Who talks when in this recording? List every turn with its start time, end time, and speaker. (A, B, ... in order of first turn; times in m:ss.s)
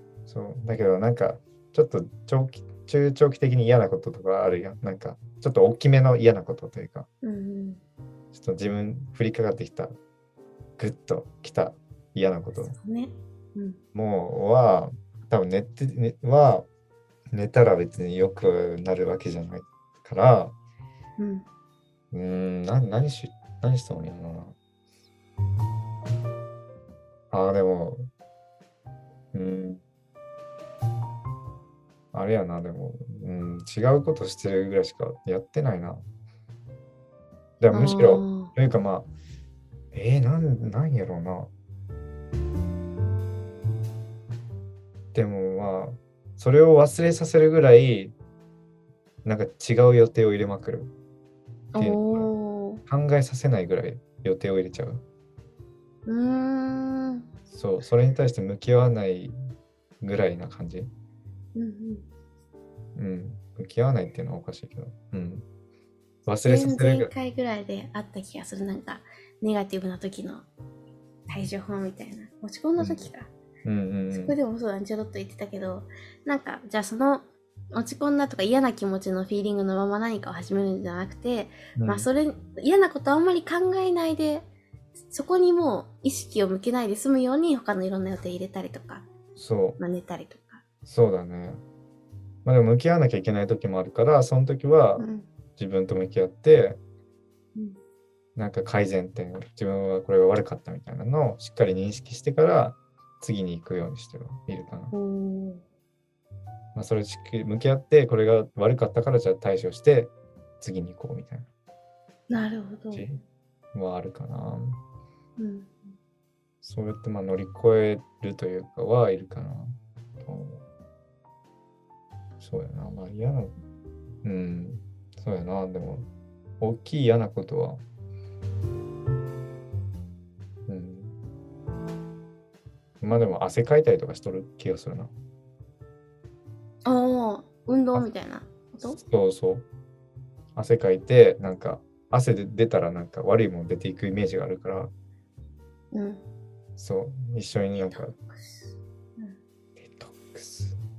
0:00.3-0:07.1 A
0:07.2-0:07.8 B
0:08.3-0:10.0 A
0:10.8-0:12.8 A
0:12.7-0:13.8 B
0:13.9-0:16.6 A
0:17.3-0:20.5 A
0:21.2-0:21.4 B
0:22.1-0:24.5 A
0:27.3-0:28.1 A
0:29.3-0:29.8 A
0:32.1-0:36.0 A
0:37.6-0:39.1 A
0:37.7-0:38.5 B
0:39.9-0:41.5 A
0:45.1-0:48.1 A
0:49.2-0:50.9 A
0:51.7-0:52.8 B
0:51.8-0:52.3 A
0:52.9-0:55.0 A
0:56.0-0:57.2 B
0:57.5-0:59.4 A
1:00.0-1:00.9 A
1:01.5-1:02.0 B
1:03.0-1:05.4 A
1:06.2-1:07.1 A
1:06.4-1:10.4 B
1:11.3-1:13.3 B
1:12.8-1:13.1 A
1:13.6-1:14.4 A
1:14.1-1:24.4 B
1:21.8-1:22.1 A
1:25.1-1:29.1 B
1:29.4-1:29.8 A
1:29.8-1:30.6 B
1:30.8-1:31.6 A
1:32.4-1:36.8 A
1:35.0-1:35.3 B
1:38.4-1:44.9 A
1:44.9-1:45.6 B
1:46.7-1:51.5 A
1:52.3-1:53.0 B
1:52.9-1:53.2 A
1:53.7-1:54.8 A
1:55.4-1:55.9 B
1:56.6-2:00.6 A
2:02.4-2:03.6 A
2:04.2-2:06.1 A
2:06.6-2:07.8 A
2:10.7-2:11.1 A
2:13.0-2:15.1 A
2:16.8-2:19.0 B
2:18.9-2:19.6 A
2:20.5-2:24.9 A
2:25.9-2:26.2 B
2:26.8-2:28.1 A
2:27.8-2:28.6 B
2:29.8-2:30.8 A